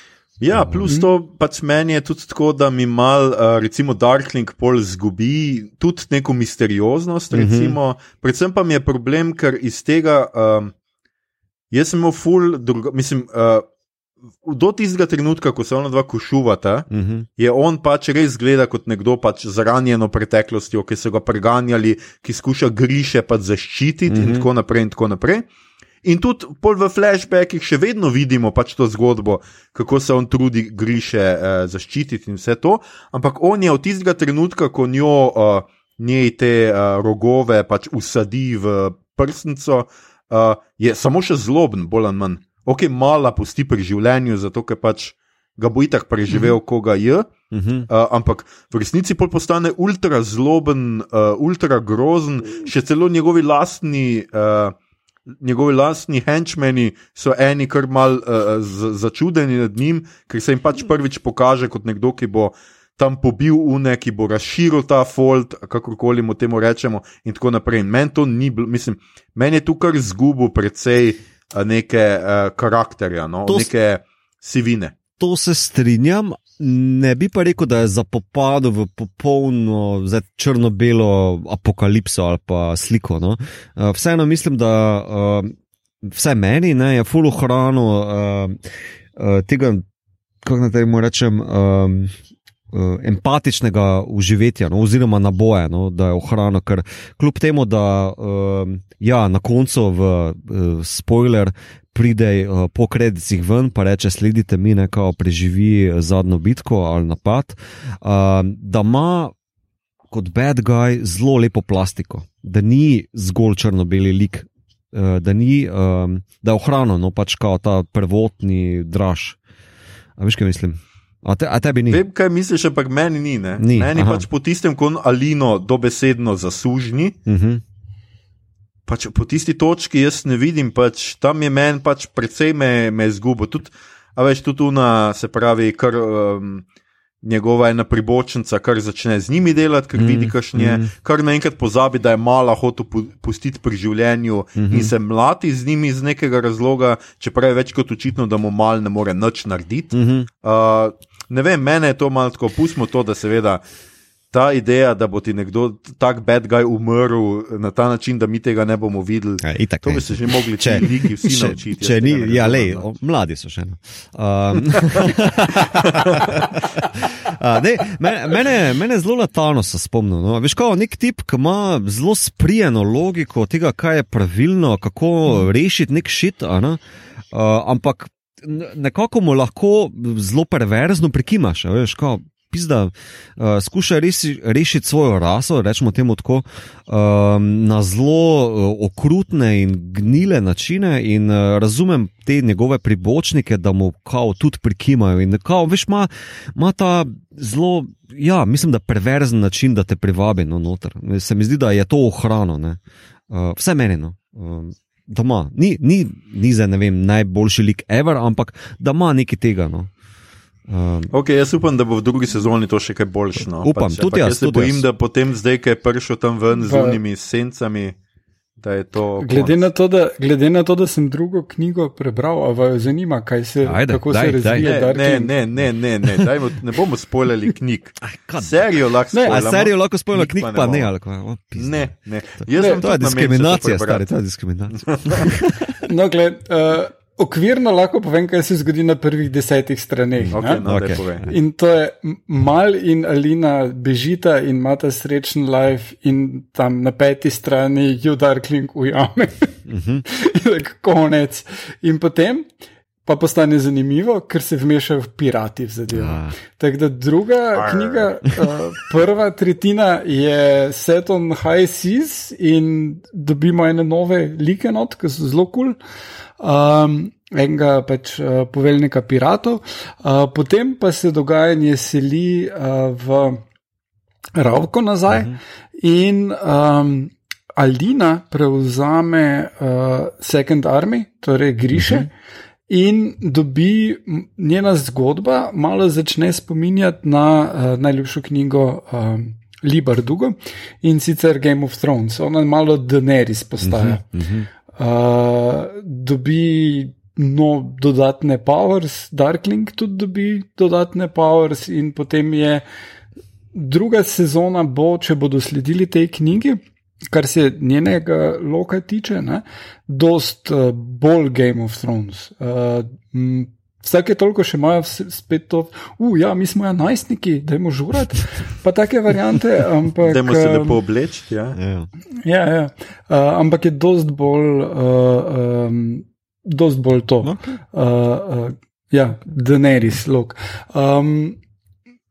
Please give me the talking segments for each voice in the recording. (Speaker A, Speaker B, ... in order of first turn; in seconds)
Speaker A: 0.4-10.7, 11.7-13.7, 14.4-25.5, 26.0-47.3, 47.9-54.8, 55.4-75.0, 121.9-127.2, 128.9-136.6, 137.2-153.6, 154.3-162.8, 211.1-217.9, 218.6-219.6, 224.6-230.9, 231.6-234.1, 234.8-235.3, 240.3-241.2, 257.5-258.2, 320.0-321.6
Speaker B: 0.5-0.9, 7.3-7.8, 16.9-17.3, 24.1-24.5, 47.5-47.9, 75.2-85.5, 86.0-88.6, 89.2-89.8, 90.4-92.1, 92.7-109.3, 110.1-119.4, 120.2-122.0, 123.6-124.2, 127.2-127.6, 139.9-140.9, 144.6-144.9, 149.9-150.3, 159.4-176.8, 177.3-202.8, 203.3-209.9, 210.7-211.1, 213.6-214.8, 223.6-224.7, 228.0-228.7, 229.2-235.7, 240.2-241.3, 249.7-250.0, 255.9-256.4, 275.1-275.4, 281.7-282.1, 293.6-294.5, 321.5-321.9, 327.2-327.6
Speaker C: 216.6-217.0, 219.2-225.3, 229.1-229.4, 232.5-232.8, 235.8-240.7, 241.3-249.6, 250.1-252.5, 253.1-265.8, 266.4-273.4, 274.4-282.1, 282.7-294.0, 294.8-302.6, 303.5-306.6, 307.1-320.8, 322.2-331.4